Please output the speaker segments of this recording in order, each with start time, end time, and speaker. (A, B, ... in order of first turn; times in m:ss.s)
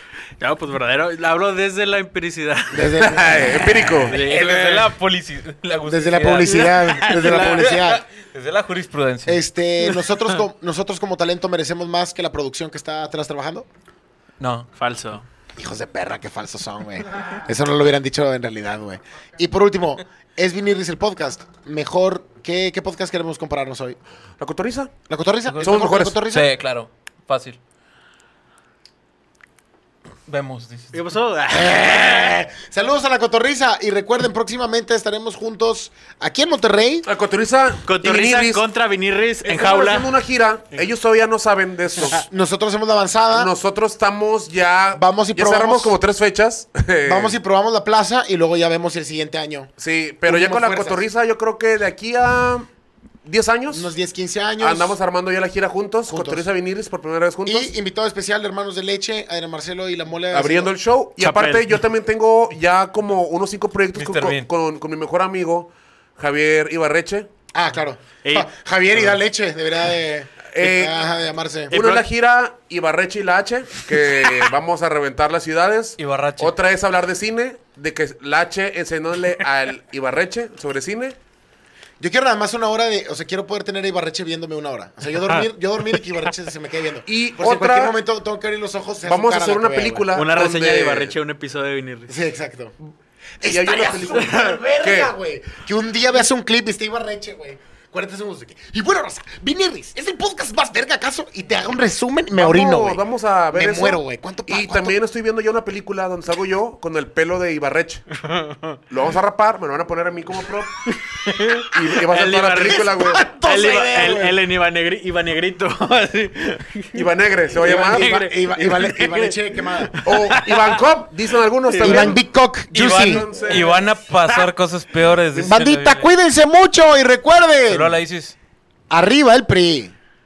0:00.4-0:03.3 A
0:02.7-0:03.9 B
0:03.0-0:04.2 C
0:04.0-0:04.9 A
0:04.1-0:09.4 D
0:05.8-0:08.0 B
0:06.4-0:07.7 A
0:09.2-0:13.7 B
0:09.8-0:10.4 A
0:14.4-0:14.7 D
0:14.7-0:15.2 A
0:15.6-0:24.0 B
0:24.4-0:24.9 C
0:25.1-0:26.5 B
0:25.5-0:27.6 D
0:25.6-0:26.2 C
0:30.3-0:31.0 D
0:30.9-0:32.3 A
0:31.5-0:37.1 B
0:37.0-0:38.6 C
0:37.8-0:40.2 A
0:39.4-0:42.2 C
0:42.1-0:43.5 B
0:43.3-0:47.4 C
0:44.9-0:46.0 B
0:47.0-0:49.7 B
0:49.8-0:52.7 C
0:50.2-0:51.0 B
0:53.2-0:53.9 C
0:53.7-0:55.0 B
0:54.6-0:57.7 C
0:56.0-0:56.5 B
0:57.4-1:00.7 B
1:00.3-1:07.3 C
1:01.2-1:01.8 A
1:03.9-1:04.5 D
1:07.5-1:11.8 B
1:08.2-1:08.5 A
1:10.5-1:11.0 C
1:11.7-1:12.1 A
1:11.7-1:21.2 C
1:16.0-1:16.6 D
1:22.0-1:30.1 B
1:27.0-1:27.9 C
1:29.0-1:31.1 C
1:30.1-1:32.2 A
1:32.1-1:32.7 B
1:33.4-1:45.0 B
1:33.4-1:35.1 C
1:34.1-1:34.6 A
1:42.3-1:48.0 C
1:48.2-1:48.8 A
1:48.9-1:50.7 C
1:50.9-1:57.0 A
1:51.6-1:53.3 C
1:52.8-1:54.4 B
1:56.9-1:58.2 C
1:57.6-2:00.8 A
1:57.6-2:00.0 B
2:00.0-2:02.2 C
2:01.6-2:02.1 A
2:01.8-2:03.2 B
2:02.7-2:06.1 D
2:02.9-2:03.8 C
2:05.3-2:08.0 B
2:07.7-2:08.3 D
2:08.9-2:09.9 B